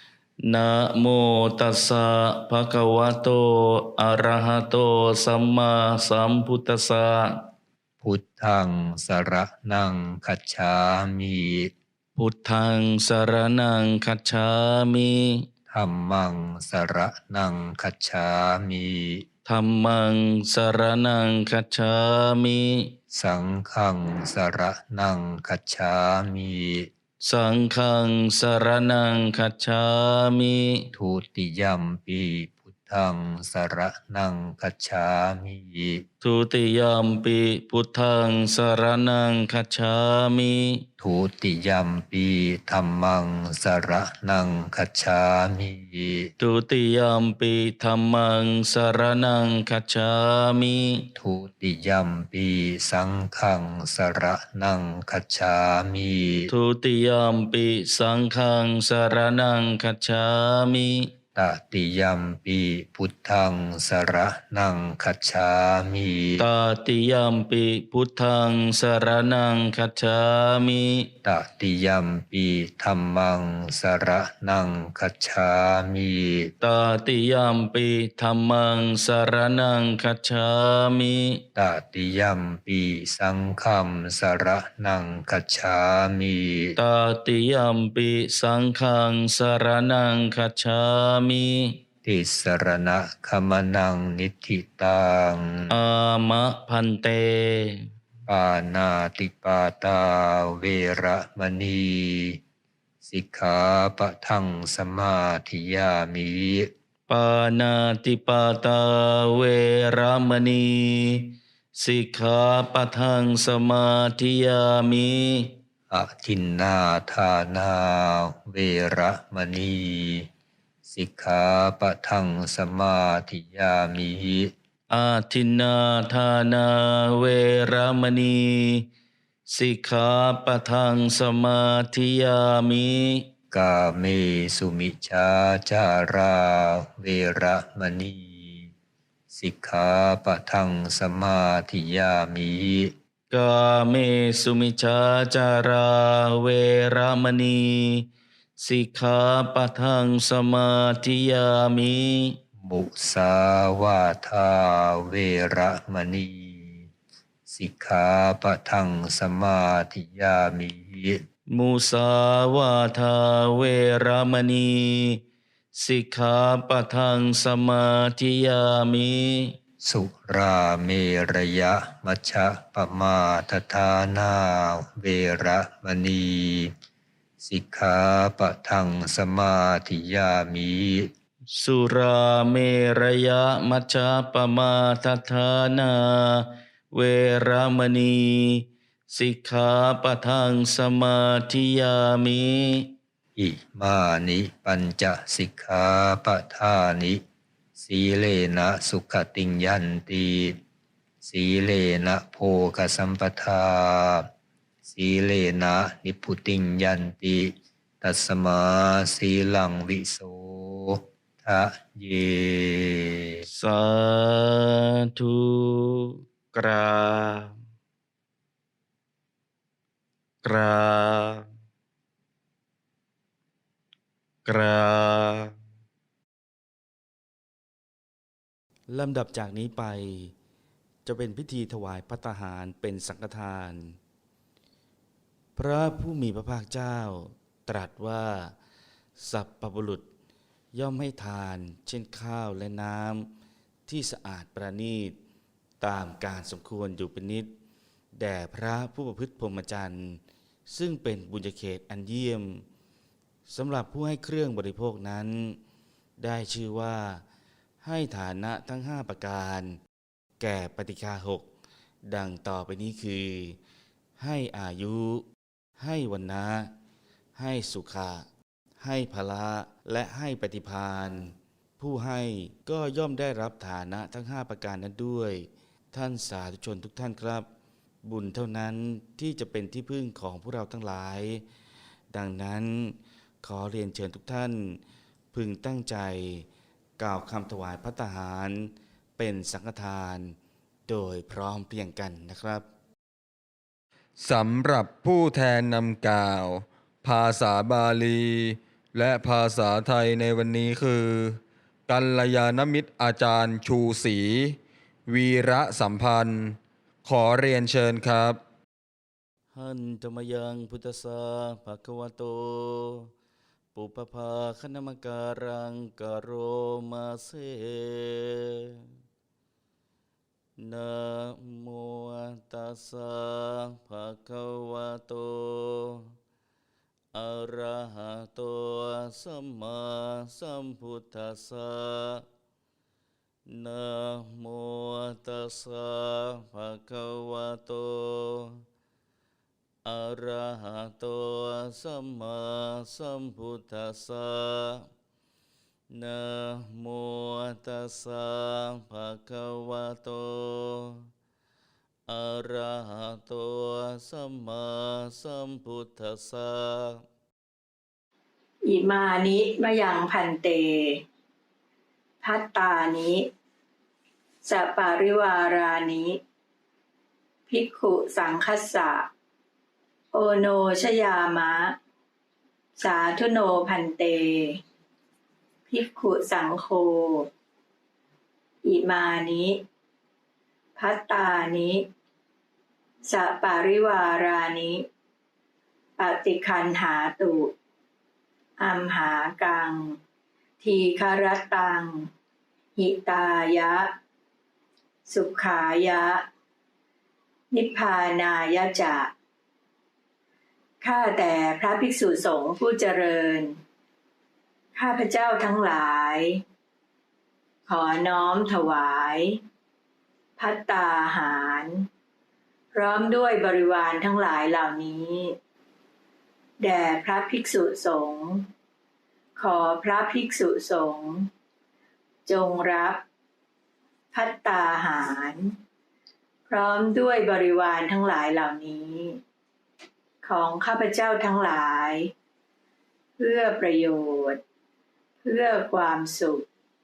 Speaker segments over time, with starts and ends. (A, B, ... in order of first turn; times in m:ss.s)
0:00.5-0:07.5 A
0:08.0-0:11.7 B
0:12.2-0:15.4 A
0:15.7-0:19.2 B
0:19.4-0:22.9 A
0:23.1-0:26.9 B
0:27.2-0:30.9 A
0:30.9-0:36.0 B
0:36.2-0:40.9 A
0:41.0-0:46.3 B
0:46.4-0:51.1 A
0:51.1-0:56.5 B
0:56.5-1:01.1 A
1:01.3-1:06.4 B
1:06.4-1:11.1 A
1:11.2-1:16.5 B
1:16.6-1:21.4 A
1:21.5-1:26.7 B
1:26.8-1:31.8 A
1:32.0-1:35.7 B
1:35.7-1:37.8 A
1:38.3-1:42.4 B
1:43.0-1:46.7 B
1:47.1-1:55.6 A
1:55.9-2:00.3 B
2:00.8-2:04.5 B
2:04.9-2:08.9 A
2:09.5-2:13.3 A
2:13.5-2:18.7 B
2:19.3-2:22.9 B
2:23.3-2:32.4 A
2:32.6-2:36.9 B
2:37.5-2:41.2 B
2:41.5-2:45.2 A
2:45.7-2:49.6 A
2:49.8-2:56.7 B
2:57.4-3:01.1 B
3:01.6-3:12.9 A
3:13.4-3:17.2 B
3:17.8-3:20.6 B
3:21.2-3:24.3 B
3:24.8-3:33.4 B
3:33.4-3:37.5 A
3:40.4-3:41.4 A
3:44.4-3:45.5 A
3:48.9-3:50.3 A
3:51.0-3:54.0 A
3:55.6-3:58.5 A
3:59.2-4:00.0 A
4:00.7-4:03.3 A
4:03.9-4:05.1 A
4:05.8-4:07.5 A
4:08.1-4:12.6 A
4:13.5-4:15.6 A
4:16.2-4:17.2 A
4:17.8-4:19.8 A
4:20.4-4:21.4 A
4:22.1-4:23.6 A
4:24.2-4:25.2 A
4:25.8-4:26.7 A
4:27.4-4:28.2 A
4:28.8-4:37.5 A
4:38.0-4:41.4 A
4:42.1-4:44.8 A
4:45.3-4:46.4 A
4:47.0-4:50.3 A
4:50.9-4:52.7 A
4:54.2-5:08.4 C
5:09.5-5:13.1 A
5:13.7-5:18.7 A
5:20.6-5:26.0 A
5:27.1-5:32.2 A
5:33.5-5:38.6 A
5:39.8-5:44.8 A
5:45.9-5:51.0 A
5:52.1-5:57.0 A
5:58.7-6:01.0 D
6:02.2-6:03.3 D
6:04.4-6:06.2 D
6:07.5-6:09.1 D
6:10.1-6:11.8 D
6:12.8-6:14.6 D
6:15.7-6:17.3 D
6:18.6-6:19.6 D
6:20.8-6:21.8 D
6:23.0-6:24.8 D
6:26.0-6:27.5 D
6:28.6-6:30.0 D
6:30.6-6:32.1 D
6:32.8-6:33.9 D
6:35.1-6:36.2 D
6:37.5-6:39.1 D
6:40.8-6:43.6 D
6:44.8-6:46.4 D
6:47.7-6:49.4 D
6:50.4-6:51.9 D
6:52.7-6:55.4 D
6:56.6-6:58.5 D
6:59.4-7:01.3 D
7:02.2-7:03.0 D
7:04.1-7:05.6 D
7:06.5-7:09.2 D
7:10.2-7:12.1 D
7:13.2-7:14.4 D
7:15.2-7:16.4 D